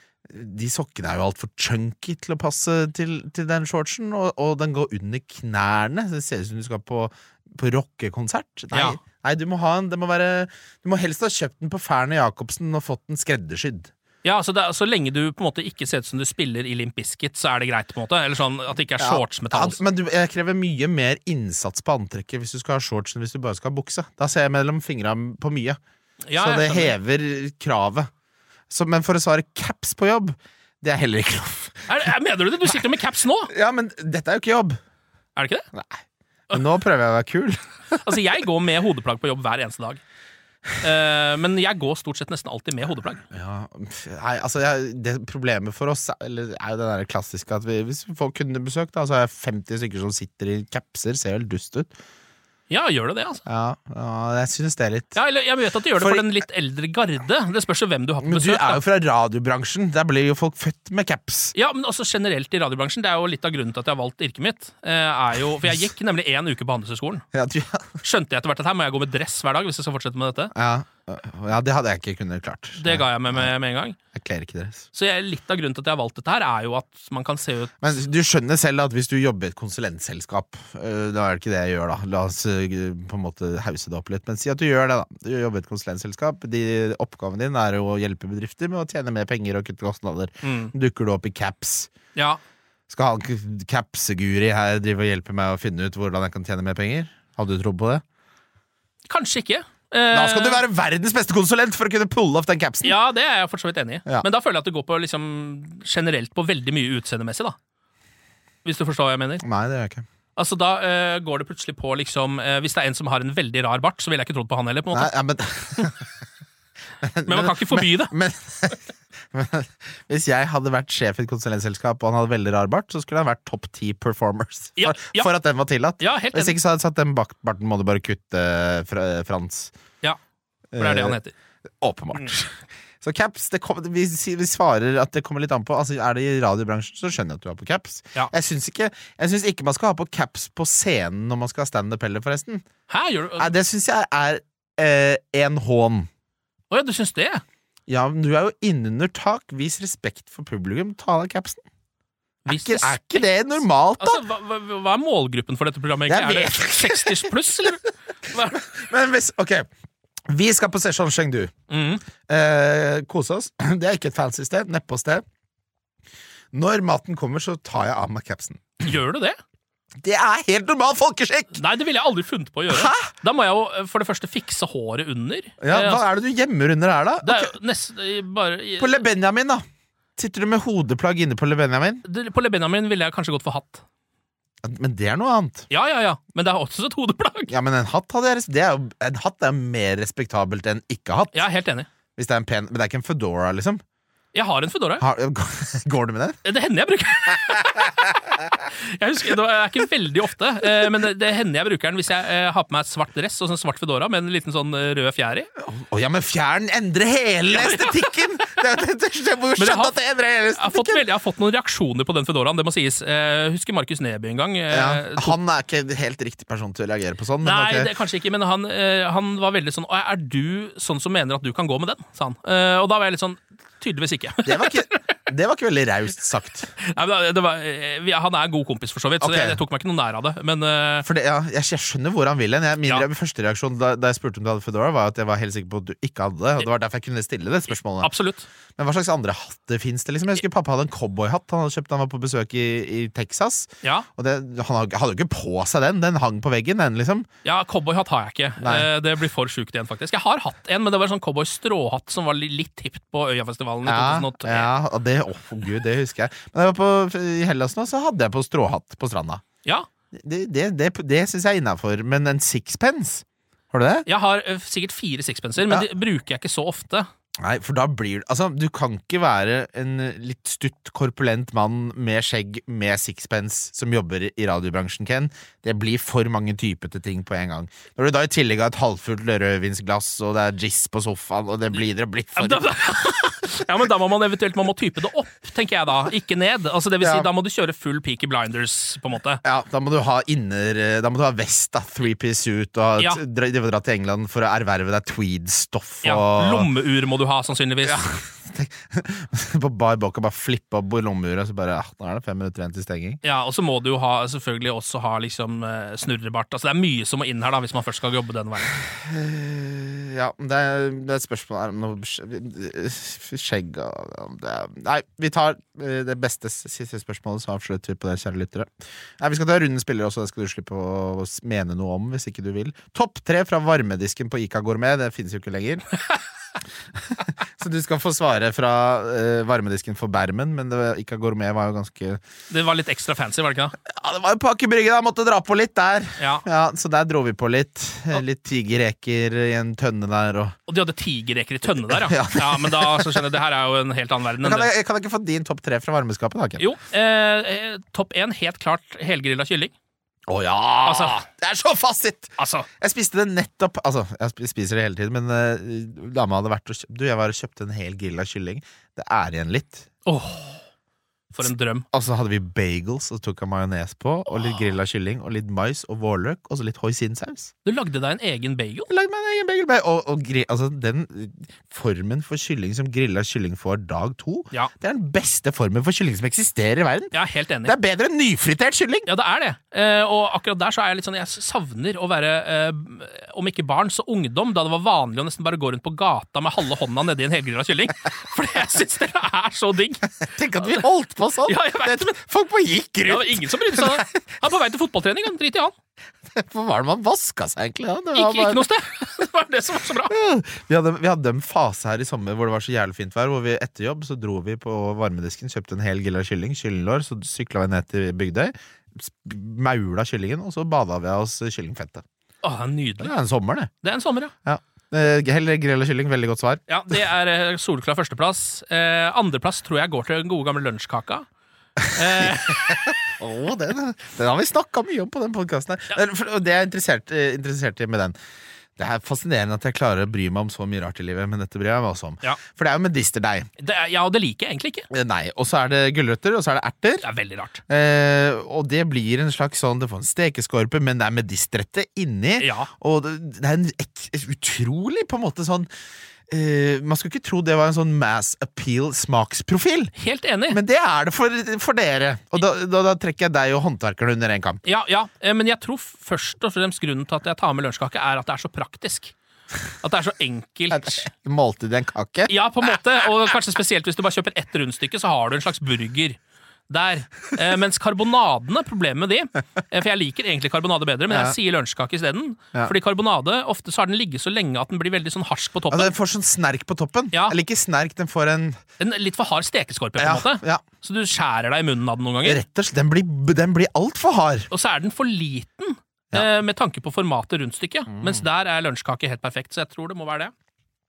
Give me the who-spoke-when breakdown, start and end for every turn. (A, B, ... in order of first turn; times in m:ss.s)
0:00.3-0:13.9 A
0:08.7-0:09.0 B
0:14.2-0:19.8 B
0:19.0-0:25.8 A
0:26.3-0:26.9 B
0:26.4-0:28.1 A
0:28.7-0:32.1 A
0:31.9-0:33.5 B
0:33.5-0:34.8 A
0:35.4-0:35.7 B
0:35.7-0:38.0 A
0:37.9-0:40.0 B
0:40.8-0:43.2 B
0:43.3-0:51.9 A
0:52.7-0:53.4 B
0:53.4-0:55.2 A
0:55.1-0:58.8 B
0:56.0-0:56.3 A
0:58.2-1:01.5 A
1:01.5-1:07.2 B
1:07.3-1:08.0 A
1:08.0-1:10.5 B
1:10.5-1:13.5 A
1:12.8-1:14.0 B
1:14.1-1:14.8 A
1:14.9-1:17.8 B
1:17.8-1:31.9 A
1:30.4-1:30.7 B
1:32.1-1:32.4 B
1:32.9-1:38.0 A
1:39.1-1:40.6 B
1:40.1-1:43.0 A
1:42.8-1:47.6 B
1:48.6-1:49.4 B
1:49.4-1:50.0 A
1:50.4-1:55.1 B
1:54.9-1:56.0 A
1:57.0-2:09.7 A
1:57.2-1:58.1 B
2:04.8-2:05.3 B
2:06.0-2:06.6 B
2:10.7-2:11.2 A
2:10.8-2:11.3 B
2:11.8-2:22.6 A
2:22.9-2:23.5 B
2:23.4-2:26.1 A
2:26.7-2:27.4 B
2:27.9-2:31.6 A
2:32.4-2:33.3 B
2:32.5-2:34.2 A
2:34.0-2:38.6 B
2:36.1-2:37.7 A
2:38.3-2:39.7 A
2:40.3-2:41.6 A
2:41.7-2:42.0 B
2:42.2-2:45.2 A
2:46.5-2:48.7 A
2:48.8-2:49.4 B
2:50.0-2:51.6 A
2:51.5-2:56.0 B
2:52.7-2:53.1 A
2:55.6-2:57.5 A
2:57.2-2:59.0 B
2:58.8-2:59.6 A
3:00.2-3:02.0 A
3:02.0-3:03.8 B
3:04.6-3:05.7 A
3:05.7-3:07.5 B
3:07.5-3:11.4 A
3:11.3-3:11.9 B
3:12.2-3:13.8 A
3:14.3-3:15.0 B
3:15.0-3:16.4 A
3:16.4-3:25.5 B
3:25.6-3:31.0 A
3:27.5-3:28.0 B
3:29.6-3:29.9 B
3:30.5-3:35.4 B
3:34.7-3:37.9 A
3:37.4-3:45.0 B
3:44.4-3:46.7 A
3:46.8-3:51.1 B
3:49.2-3:49.6 A
3:51.0-3:58.1 A
3:58.0-3:58.5 B
3:58.8-4:07.3 A
4:07.4-4:14.7 B
4:08.6-4:08.9 A
4:13.8-4:19.4 A
4:20.1-4:24.1 A
4:24.1-4:27.1 B
4:27.4-4:42.7 A
4:42.4-4:49.4 B
4:47.0-4:47.3 A
4:49.4-4:56.7 A
4:56.0-4:58.1 B
4:57.8-5:03.2 A
5:03.2-5:08.8 B
5:08.9-5:25.8 A
5:27.1-5:32.2 A
5:32.5-5:33.8 B
5:33.8-5:40.6 A
5:36.2-5:36.4 B
5:40.7-5:44.7 B
5:41.8-5:43.2 A
5:44.4-5:46.6 A
5:46.6-5:49.7 B
5:50.3-5:59.9 A
5:50.8-5:51.2 B
5:52.4-5:52.7 B
6:00.0-6:00.6 B
6:01.3-6:01.8 B
6:01.9-6:07.5 A
6:07.6-6:08.9 B
6:08.9-6:17.1 A
6:17.1-6:17.7 B
6:17.6-6:19.1 A
6:19.0-6:30.8 B
6:30.2-6:34.2 A
6:31.4-6:32.2 B
6:33.0-6:35.7 B
6:36.2-6:38.7 A
6:38.1-6:40.1 B
6:40.1-6:52.0 A
6:52.4-6:53.1 B
6:53.0-6:53.7 A
6:53.8-6:54.3 B
6:54.4-6:56.6 A
6:56.7-7:01.2 B
7:01.8-7:08.1 A
7:01.9-7:02.9 B
7:08.8-7:13.5 A
7:13.6-7:14.9 B
7:14.9-7:17.0 A
7:17.0-7:17.6 B
7:17.7-7:25.7 A
7:22.4-7:22.7 B
7:26.3-7:29.9 A
7:30.0-7:30.6 B
7:30.5-7:34.6 A
7:34.6-7:39.1 B
7:39.8-7:41.0 B
7:40.7-7:42.3 A
7:42.3-7:46.2 B
7:46.7-7:55.9 B
7:51.1-7:51.4 A
7:55.7-7:58.6 A
7:57.1-7:57.4 B
7:58.8-8:02.4 B
8:00.0-8:00.6 A
8:02.2-8:04.5 A
8:04.5-8:10.3 B
8:07.9-8:08.2 A